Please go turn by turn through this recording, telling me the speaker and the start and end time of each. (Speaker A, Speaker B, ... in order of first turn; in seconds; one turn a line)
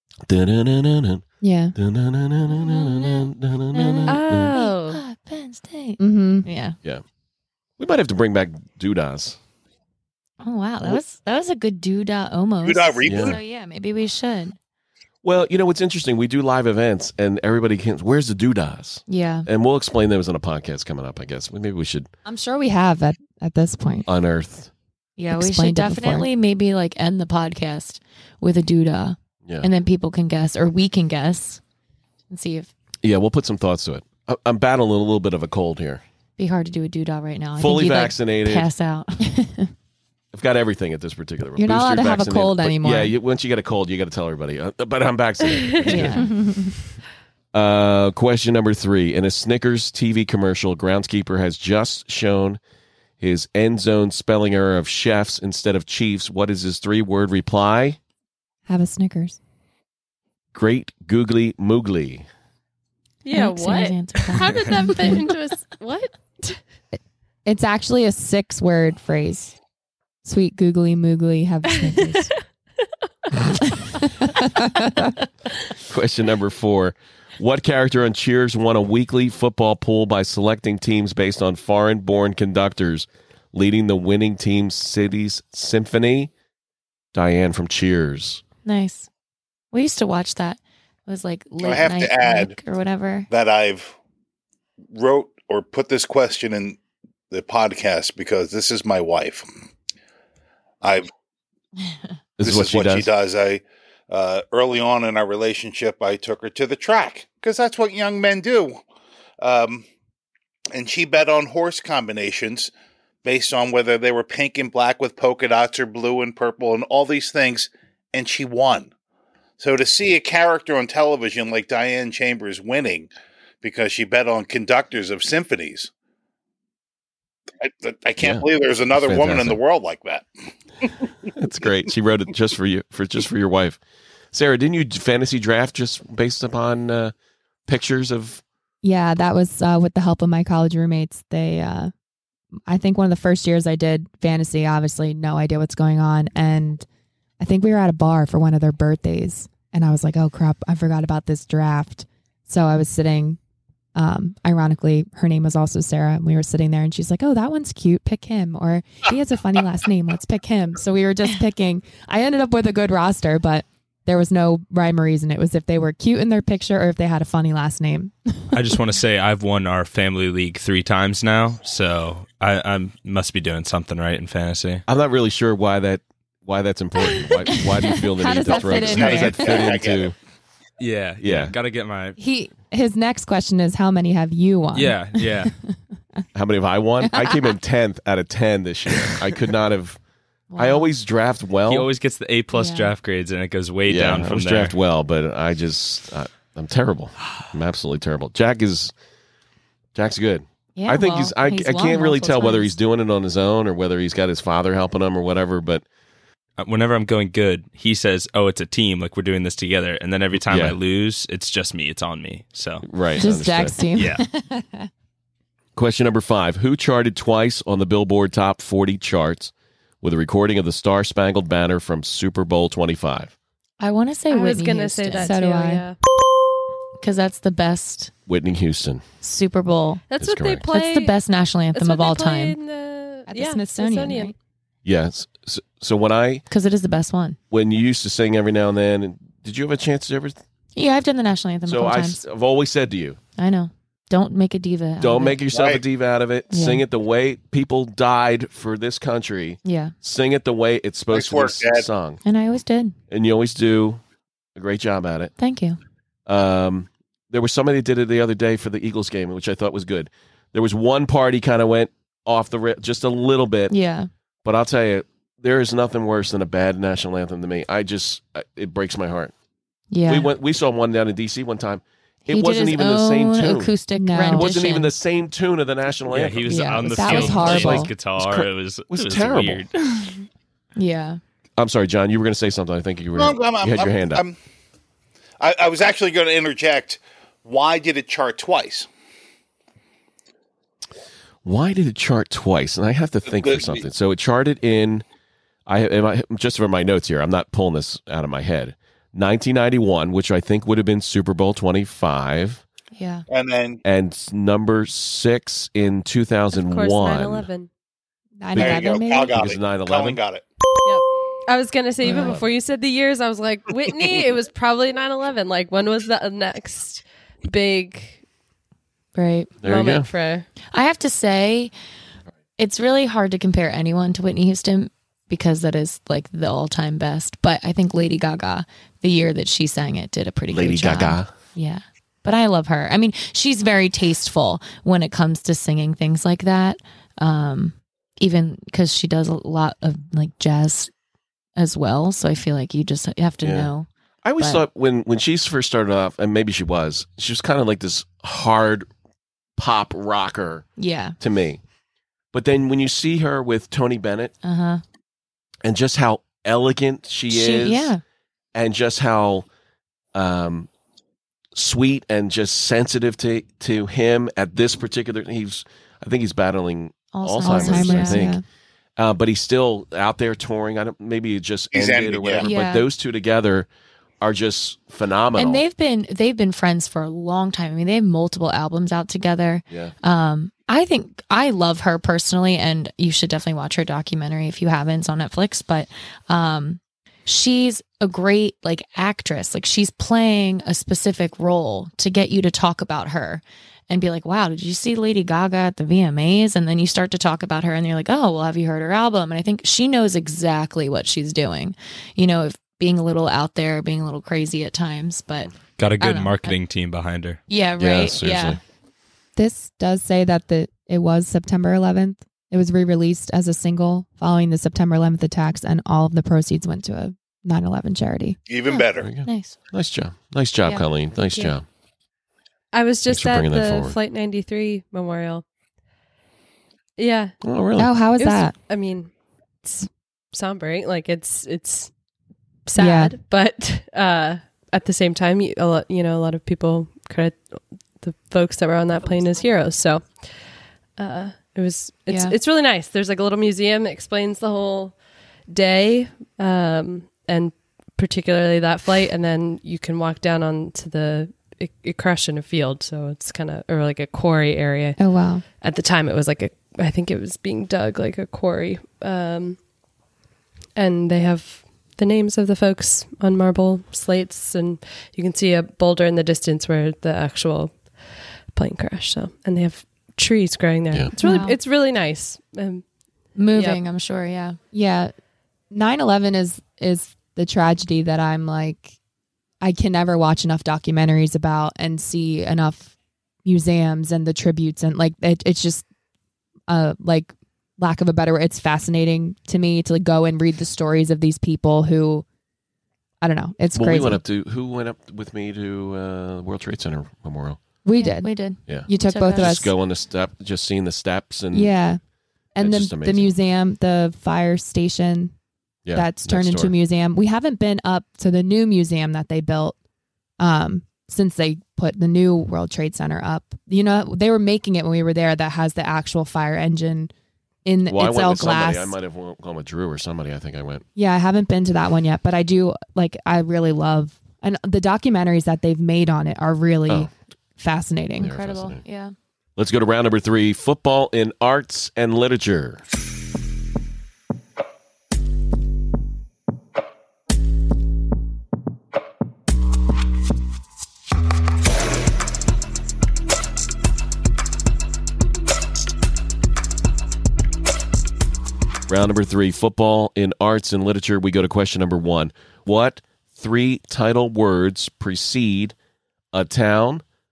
Speaker A: 0.3-1.2
Speaker B: 1.4-1.7
Speaker A: 1.7-4.5
Speaker C: 2.5-6.8
Speaker D: 4.1-5.0
Speaker B: 6.0-6.5
Speaker A: 7.8-9.4
Speaker C: 10.4-14.6
Speaker E: 12.6-13.4
Speaker A: 13.0-13.4
Speaker A: 15.2-22.1
Speaker C: 19.1-19.5
Speaker B: 22.2-24.1
Speaker A: 24.1-24.7
Speaker C: 25.2-31.6
Speaker B: 25.3-26.3
Speaker C: 32.3-32.7
Speaker A: 33.0-36.0
Speaker C: 36.4-39.3
Speaker A: 37.6-38.7
Speaker B: 39.2-39.7
Speaker A: 40.3-46.3
Speaker B: 41.5-43.1
Speaker C: 45.9-46.4
Speaker B: 45.9-46.7
Speaker A: 47.5-52.6
Speaker A: 53.2-58.0
Speaker B: 58.7-59.4
Speaker A: 60.5-62.2
Speaker D: 63.2-66.6
Speaker C: 63.3-65.3
Speaker B: 67.4-69.5
Speaker B: 70.2-72.3
Speaker D: 71.9-72.3
Speaker B: 73.7-75.1
Speaker A: 75.8-86.3
Speaker A: 87.1-88.4
Speaker C: 88.6-89.1
Speaker C: 89.7-93.3
Speaker E: 91.6-92.5
Speaker E: 93.3-93.9
Speaker E: 94.9-96.8
Speaker E: 97.3-99.5
Speaker E: 100.8-101.1
Speaker A: 102.4-103.1
Speaker E: 102.4-108.8
Speaker E: 109.4-109.8
Speaker E: 110.7-112.7
Speaker E: 113.2-118.9
Speaker E: 119.6-123.1
Speaker E: 123.6-125.9
Speaker E: 127.6-130.3
Speaker A: 128.2-129.6
Speaker A: 131.3-133.8
Speaker A: 134.3-137.1
Speaker A: 137.7-138.4
Speaker B: 138.8-141.9
Speaker B: 142.7-146.8
Speaker B: 147.4-153.4
Speaker B: 153.9-168.7
Speaker F: 168.5-174.8
Speaker A: 174.9-180.1
Speaker B: 177.7-179.7
Speaker E: 178.7-180.1
Speaker F: 180.8-182.2
Speaker A: 181.2-181.5
Speaker B: 182.2-185.6
Speaker F: 184.7-185.5
Speaker A: 186.3-190.0
Speaker B: 187.0-187.3
Speaker C: 190.5-190.9
Speaker A: 190.6-191.9
Speaker F: 191.7-194.7
Speaker C: 192.5-192.9
Speaker A: 193.9-198.9
Speaker A: 199.9-205.8
Speaker C: 200.8-202.8
Speaker F: 206.6-212.8
Speaker A: 210.4-210.8
Speaker A: 212.8-213.8
Speaker B: 213.2-214.9
Speaker F: 213.9-214.2
Speaker A: 215.8-223.3
Speaker C: 223.8-225.3
Speaker D: 224.3-226.0
Speaker B: 225.2-225.8
Speaker C: 227.0-228.1
Speaker A: 228.3-229.0
Speaker C: 229.2-230.0
Speaker D: 230.1-231.2
Speaker A: 230.2-230.6
Speaker C: 230.7-232.6
Speaker D: 231.7-234.3
Speaker B: 233.3-234.3
Speaker A: 234.8-236.4
Speaker C: 236.5-237.4
Speaker A: 237.5-240.4
Speaker C: 240.8-242.2
Speaker A: 241.7-243.2
Speaker C: 243.4-245.4
Speaker A: 245.0-252.2
Speaker E: 245.5-245.8
Speaker C: 246.5-246.8
Speaker C: 249.6-249.9
Speaker E: 251.1-251.9
Speaker C: 252.2-252.9
Speaker A: 253.1-254.0
Speaker A: 254.5-255.3
Speaker C: 255.4-255.8
Speaker A: 256.3-263.7
Speaker C: 263.7-264.1
Speaker A: 264.4-269.3
Speaker C: 269.9-270.3
Speaker A: 270.1-273.7
Speaker C: 272.2-274.9
Speaker B: 273.9-274.5
Speaker A: 274.3-279.7
Speaker F: 276.1-280.1
Speaker C: 276.5-277.5
Speaker B: 276.7-277.9
Speaker C: 280.8-281.2
Speaker A: 281.6-284.2
Speaker E: 283.1-284.3
Speaker E: 285.4-288.9
Speaker A: 291.4-295.0
Speaker E: 293.3-293.8
Speaker A: 295.6-302.6
Speaker C: 302.9-303.2
Speaker E: 303.3-303.8
Speaker A: 303.8-307.4
Speaker D: 306.5-307.7
Speaker B: 308.4-309.4
Speaker A: 308.5-310.2
Speaker E: 308.6-310.4
Speaker D: 310.8-318.2
Speaker A: 312.0-312.4
Speaker C: 319.1-319.6
Speaker A: 319.6-320.1
Speaker D: 319.6-320.5
Speaker C: 320.7-321.7
Speaker C: 322.6-340.9
Speaker A: 330.5-331.3
Speaker C: 341.6-343.9
Speaker A: 343.4-343.7
Speaker A: 344.2-348.9
Speaker C: 344.4-344.6
Speaker A: 349.6-350.6
Speaker C: 350.8-351.1
Speaker A: 351.2-351.6
Speaker A: 352.3-354.3
Speaker C: 354.4-354.8
Speaker A: 355.6-357.9
Speaker C: 357.3-358.0
Speaker A: 358.5-359.4
Speaker A: 360.1-360.7
Speaker A: 361.5-368.4
Speaker C: 367.1-368.3
Speaker B: 367.4-368.4
Speaker A: 369.0-373.7
Speaker E: 371.7-372.5
Speaker C: 372.4-372.9
Speaker A: 374.2-375.6
Speaker C: 375.4-406.6
Speaker F: 405.8-407.4
Speaker C: 407.5-408.6
Speaker A: 407.8-408.6
Speaker B: 409.4-418.4
Speaker E: 418.5-419.1
Speaker C: 418.7-419.6
Speaker A: 419.0-421.6
Speaker D: 422.7-425.4
Speaker A: 423.1-423.9
Speaker D: 427.0-427.4
Speaker A: 427.4-427.9
Speaker B: 427.8-428.5
Speaker D: 428.2-429.1
Speaker D: 429.6-431.9
Speaker D: 432.6-440.3
Speaker B: 432.8-433.1
Speaker D: 441.0-444.9
Speaker D: 445.5-455.1
Speaker B: 455.0-455.4
Speaker D: 455.6-459.6
Speaker D: 460.8-468.0
Speaker D: 468.5-472.8
Speaker B: 471.2-471.5
Speaker C: 471.2-471.5
Speaker C: 473.4-474.6
Speaker D: 473.5-473.8
Speaker B: 474.7-475.1
Speaker B: 475.7-478.9
Speaker B: 479.6-482.9
Speaker B: 483.4-485.8
Speaker B: 486.7-492.2
Speaker B: 493.2-494.2
Speaker A: 493.7-497.6
Speaker B: 497.8-499.7
Speaker C: 498.0-499.7
Speaker A: 498.7-501.7
Speaker B: 501.5-502.0
Speaker B: 502.6-505.3
Speaker A: 502.6-503.3
Speaker A: 505.8-506.7
Speaker B: 505.9-509.8
Speaker B: 510.4-517.1
Speaker B: 517.6-518.9
Speaker A: 517.9-520.8
Speaker B: 521.0-528.3
Speaker A: 528.2-528.8
Speaker C: 528.2-529.1
Speaker A: 529.5-532.8
Speaker A: 548.9-555.7
Speaker A: 556.3-557.0